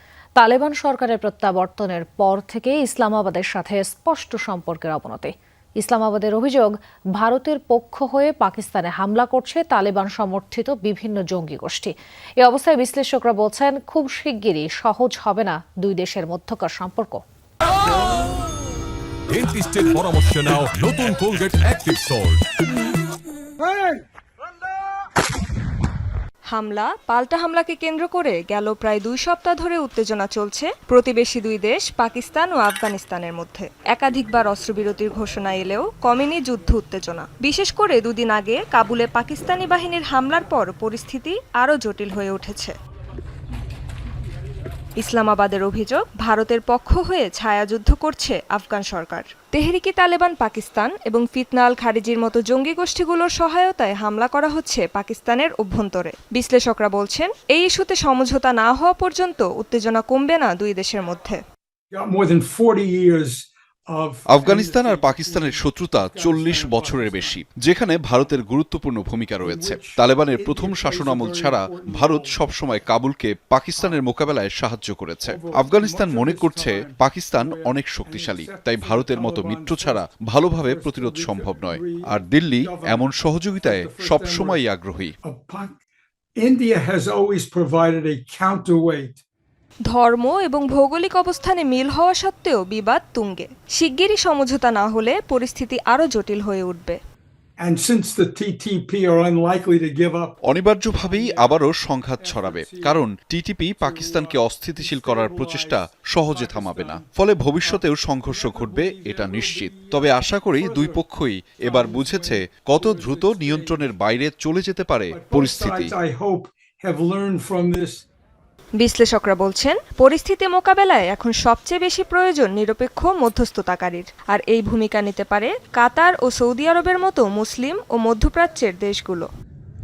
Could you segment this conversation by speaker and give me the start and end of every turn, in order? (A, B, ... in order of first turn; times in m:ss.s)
0:00.4-0:17.2 A
0:19.3-0:22.4 B
0:26.5-0:42.7 C
0:45.0-1:01.4 C
1:01.9-1:07.4 D
1:04.3-1:25.2 E
1:09.4-1:12.4 D
1:15.3-1:20.0 D
1:20.6-1:22.1 D
1:22.6-1:23.1 D
1:23.6-1:24.6 D
1:25.2-1:25.8 D
1:26.4-1:29.2 D
1:29.9-1:37.0 C
1:37.6-1:41.7 D
1:40.4-1:55.9 E
1:42.2-1:43.0 D
1:43.8-1:47.1 D
1:47.6-1:51.0 D
1:51.6-1:53.9 D
1:55.1-1:58.0 D
1:58.8-2:09.3 C